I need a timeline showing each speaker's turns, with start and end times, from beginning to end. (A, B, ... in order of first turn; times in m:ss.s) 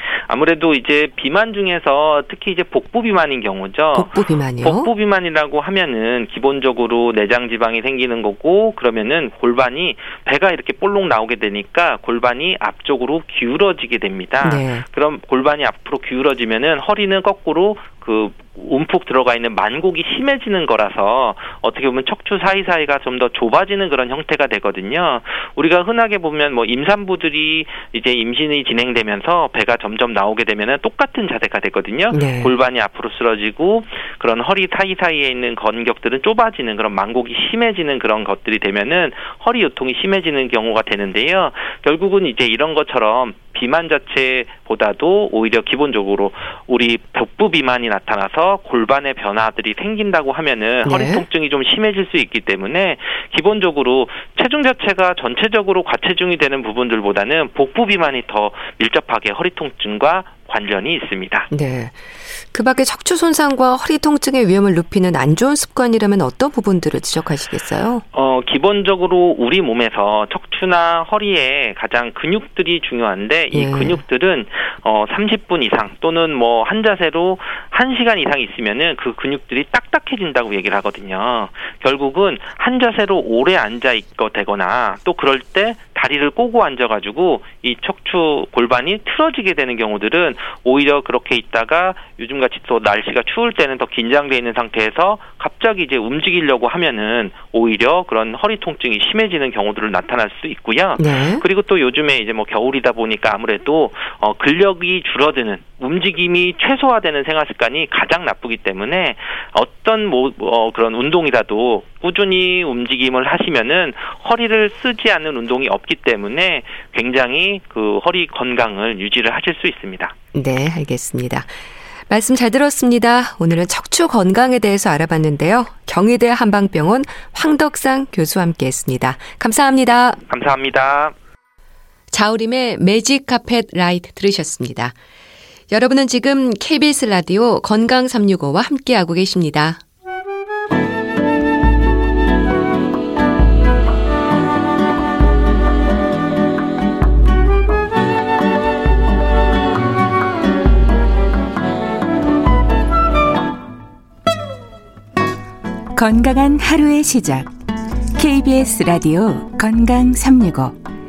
0:00.3-1:01.5 A
0:03.9-0:04.9 B
0:14.4-0:14.8 B
0:32.1-0:32.5 B
0:50.8-0:51.2 B
1:01.5-1:08.0 B
1:08.1-2:00.1 A
1:13.5-1:14.0 B
1:41.0-1:41.4 B
2:00.3-2:10.2 B
2:10.3-2:11.1 A
2:12.1-2:14.9 B
2:15.7-2:19.8 B
2:35.9-2:37.5 C
2:38.1-2:40.8 C